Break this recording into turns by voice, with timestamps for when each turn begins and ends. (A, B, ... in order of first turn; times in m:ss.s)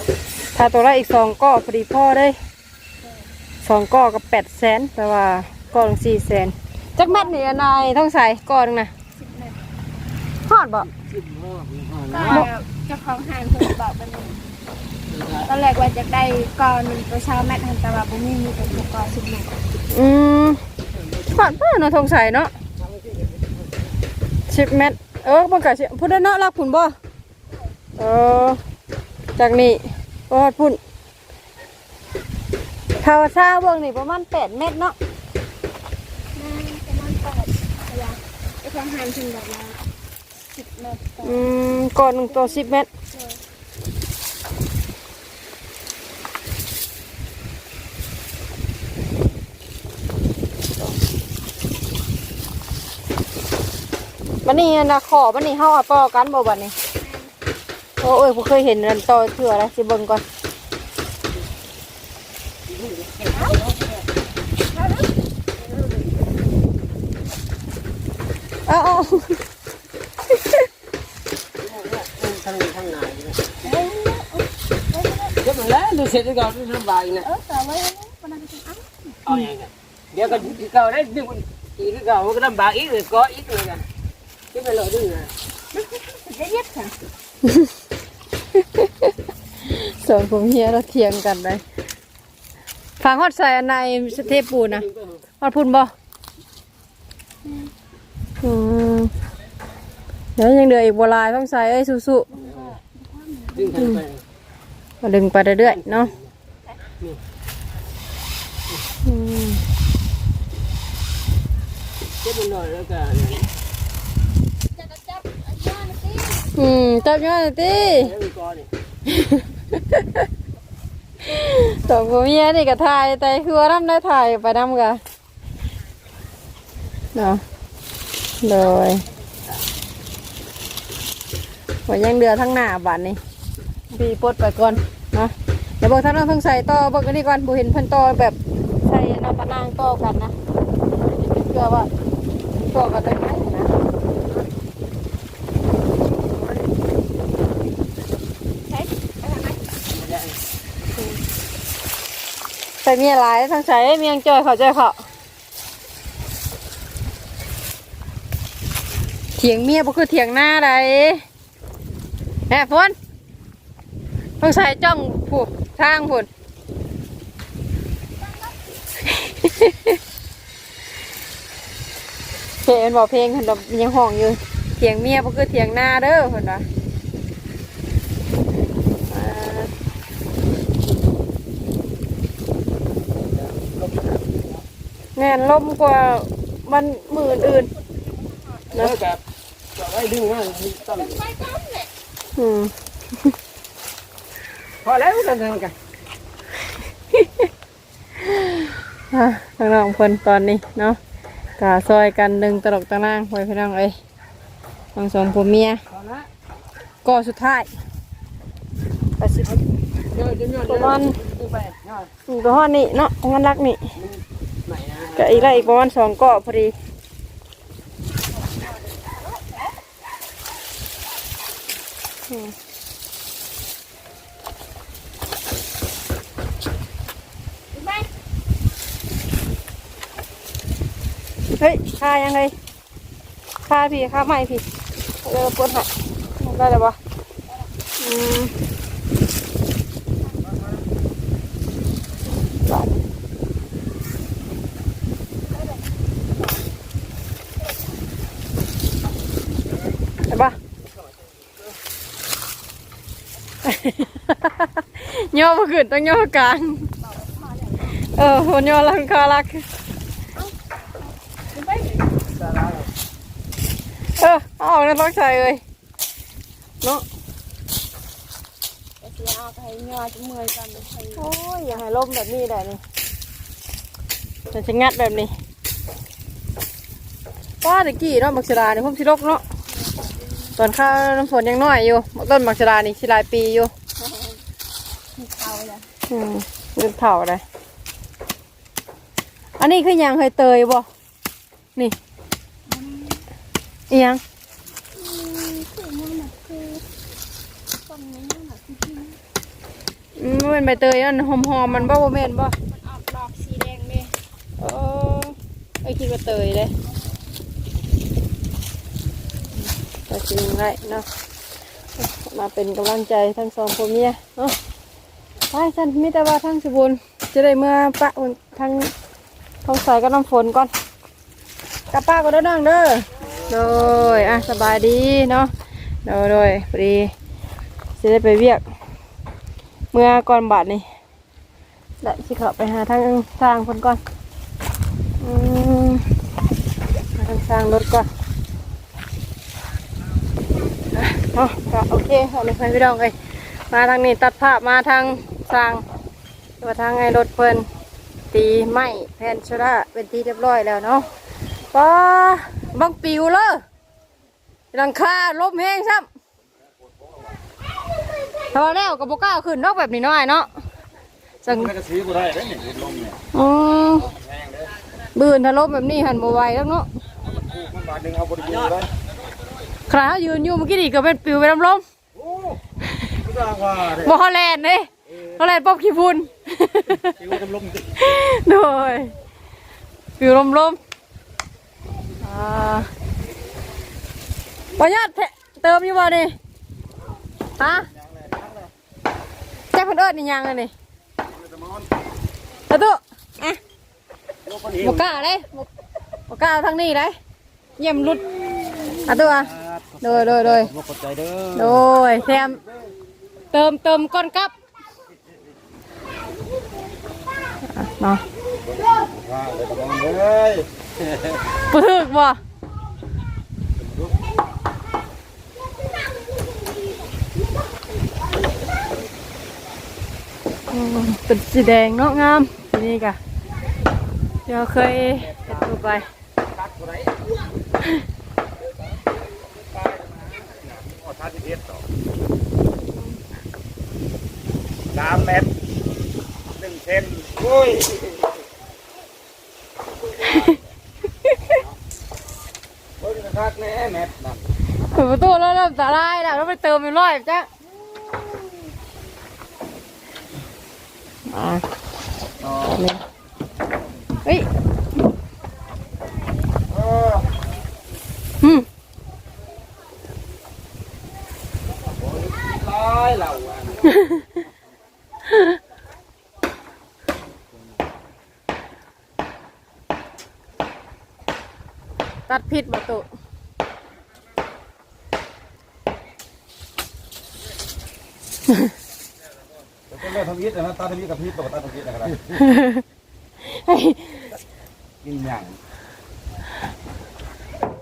0:00.5-0:02.4 A
0:03.0-0:03.3 B
0:03.6-0:08.9 A
0:07.0-0:07.4 B
0:09.2-0:09.6 B
0:10.5-0:10.9 A
0:11.1-0:12.5 C
0:12.1-0:14.4 B
0:12.2-0:12.5 A
0:15.1-0:15.5 C
0:15.4-0:19.6 B
0:19.9-0:20.6 A
0:21.2-0:21.4 C
0:21.3-0:22.5 A
0:22.8-0:23.6 C
0:24.5-0:27.0 A
0:28.0-0:28.6 A
0:29.4-0:30.8 A
0:33.0-0:35.0 A
0:36.4-0:39.8 B
0:40.6-0:41.5 B
0:41.2-0:42.9 A
0:42.3-0:43.4 B
0:54.4-0:56.7 A
0:58.0-1:00.2 A
1:02.7-1:03.9 C
1:08.7-1:09.4 A
1:11.6-1:13.6 C
1:13.6-1:15.4 B
1:15.4-1:17.3 C
1:17.2-1:19.5 B
1:19.3-1:23.9 C
1:24.5-1:25.3 C
1:26.0-1:26.9 B
1:28.6-1:29.1 A
1:29.7-1:31.6 A
1:33.0-1:34.9 A
1:34.1-1:35.2 C
1:35.4-1:35.9 A
1:38.4-1:39.1 A
1:40.4-1:42.3 A
1:42.3-1:43.9 B
1:42.4-1:42.8 C
1:43.5-1:44.2 C
1:45.0-1:46.1 A
1:49.0-1:49.6 A
1:52.2-1:53.5 C
1:54.9-1:56.5 B
1:56.6-1:58.1 A
1:57.9-1:58.7 C
1:59.1-2:00.2 A
2:01.3-2:05.0 A
2:07.1-2:07.4 A
2:08.4-2:09.0 A
2:11.9-2:13.2 A
2:13.9-2:20.3 A
2:21.2-2:21.9 A
2:22.7-2:23.7 A
2:28.7-2:29.8 B
2:29.9-2:30.4 C
2:32.8-2:35.0 A
2:39.4-2:41.2 A
2:42.5-2:43.0 A
2:44.4-2:46.3 A
2:49.0-2:50.0 A
2:52.6-2:56.6 A
2:59.1-2:59.7 A
3:03.3-3:04.5 C
3:05.2-3:07.7 A
3:08.7-3:09.2 C
3:09.8-3:11.4 C
3:11.6-3:11.9 B
3:12.4-3:12.7 A
3:14.8-3:15.8 C
3:17.1-3:17.4 A
3:18.3-3:21.0 A
3:21.6-3:24.0 A
3:25.0-3:25.8 A
3:25.9-3:26.3 C
3:27.0-3:27.7 A
3:29.2-3:29.5 A
3:30.1-3:32.1 C
3:30.7-3:31.2 A
3:32.3-3:33.8 A
3:34.0-3:35.8 C
3:35.2-3:36.7 A
3:38.3-3:39.7 B
3:47.8-3:48.1 B
3:51.6-3:52.5 A
3:53.7-3:54.6 A
3:55.2-3:57.0 A
3:58.0-3:58.5 A
4:02.7-4:03.0 A
4:10.3-4:10.6 A
4:13.6-4:16.9 A
4:17.0-4:18.0 B
4:17.9-4:19.6 A
4:21.5-4:22.1 B
4:22.3-4:22.9 C
4:24.2-4:25.6 A
4:29.0-4:31.3 B
4:31.2-4:32.8 A
4:34.5-4:35.3 A
4:37.6-4:39.4 A
4:40.6-4:43.7 A
4:44.0-4:44.4 B
4:45.2-4:45.9 B
4:46.1-4:47.4 A
4:49.6-4:50.9 A
4:52.7-4:53.2 B
4:53.9-4:54.2 A
4:54.9-4:56.8 B
4:57.9-4:59.2 B
5:00.2-5:02.5 A
5:02.6-5:04.1 B
5:04.6-5:06.7 A
5:10.1-5:11.0 A
5:12.0-5:14.6 A
5:15.5-5:18.9 A
5:19.6-5:20.7 A
5:21.9-5:25.5 A
5:26.0-5:27.1 A
5:28.0-5:28.6 A
5:29.9-5:30.8 A
5:32.0-5:34.0 A
5:35.2-5:36.0 A
5:37.2-5:38.1 A
5:40.9-5:43.2 A
5:43.7-5:45.8 A
5:46.6-5:47.7 A
5:48.3-5:51.0 A
5:51.7-5:53.6 A
5:54.7-5:56.1 A
5:58.5-6:00.5 A
6:01.4-6:01.8 A
6:01.8-6:03.2 D
6:03.3-6:04.1 A
6:05.2-6:06.9 A
6:07.6-6:08.9 D
6:09.9-6:11.8 A
6:13.4-6:13.8 D
6:13.8-6:19.1 A
6:20.2-6:20.8 A
6:22.2-6:22.9 A
6:24.8-6:26.3 A
6:27.6-6:27.9 A
6:29.7-6:30.7 A
6:32.7-6:33.6 A
6:34.6-6:35.7 A
6:36.3-6:37.1 A
6:37.8-6:40.8 A
6:41.0-6:41.4 D
6:41.5-6:42.6 A
6:43.5-6:44.5 A
6:47.7-6:48.2 A
6:49.2-6:50.6 D
6:51.6-6:52.4 A
7:00.7-7:03.2 A
7:04.5-7:06.1 A
7:09.8-7:11.8 D
7:15.0-7:15.5 D
7:16.6-7:17.9 D
7:20.2-7:20.6 A
7:21.3-7:21.6 A
7:23.1-7:24.2 C
7:23.1-7:24.2 D
7:24.9-7:27.5 A
7:31.3-7:31.6 A
7:32.5-7:33.0 A
7:38.4-7:38.7 A
7:42.2-7:43.7 D
7:52.3-7:53.1 A
7:59.9-8:02.2 D
8:02.3-8:02.8 A
8:03.5-8:04.3 A
8:05.0-8:05.6 D